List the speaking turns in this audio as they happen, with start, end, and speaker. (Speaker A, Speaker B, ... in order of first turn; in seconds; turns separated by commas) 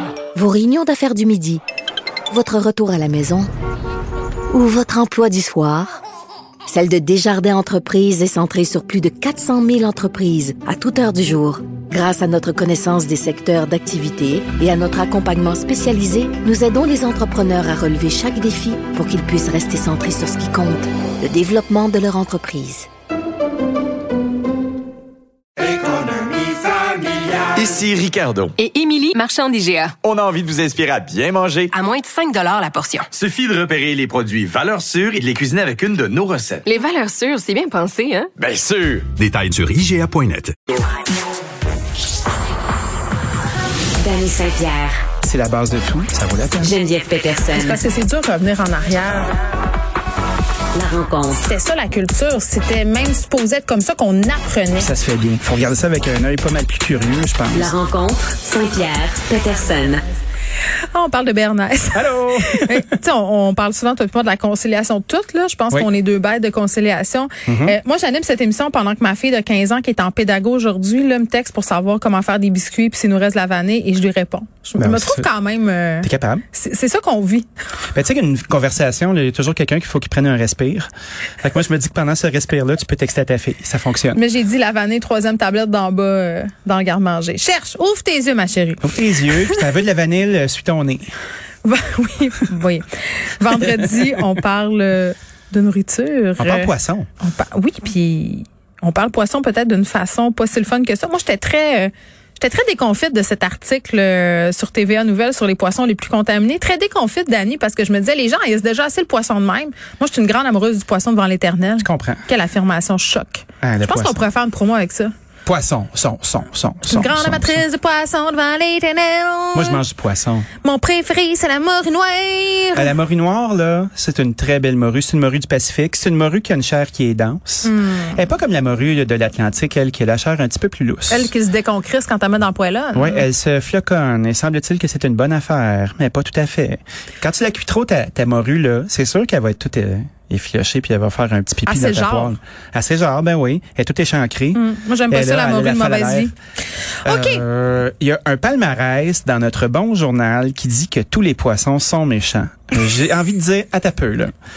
Speaker A: 0.3-1.6, Speaker A: 2.3-3.5, Speaker A: 4.5-6.0, Speaker A: 6.7-22.9, Speaker B: 25.6-28.5, Speaker C: 28.6-29.9, Speaker B: 30.0-31.7, Speaker C: 31.7-33.1, Speaker B: 33.1-36.6, Speaker C: 36.6-38.3, Speaker B: 38.4-40.5, Speaker D: 44.0-45.0, Speaker E: 45.2-46.7, Speaker D: 46.6-47.8, Speaker F: 47.5-49.3, Speaker D: 50.7-51.4, Speaker F: 51.4-54.9, Speaker E: 54.8-57.7, Speaker D: 57.5-60.0, Speaker F: 60.9-77.5, Speaker E: 61.9-62.8, Speaker E: 67.5-67.8, Speaker E: 74.8-75.3, Speaker E: 76.0-76.4, Speaker E: 77.9-80.9, Speaker E: 81.4-84.2, Speaker F: 84.1-89.7, Speaker E: 88.8-91.1, Speaker F: 91.6-115.1, Speaker E: 96.4-97.1, Speaker E: 111.8-112.2, Speaker E: 113.6-114.2, Speaker E: 115.5-117.6, Speaker F: 116.8-119.8, Speaker E: 119.5-120.5, Speaker F: 120.6-122.9, Speaker E: 122.7-131.3, Speaker F: 127.6-128.2, Speaker F: 131.1-133.3, Speaker E: 132.9-146.3, Speaker F: 141.7-142.3, Speaker F: 144.5-146.3, Speaker F: 147.0-147.4, Speaker E: 147.0-154.3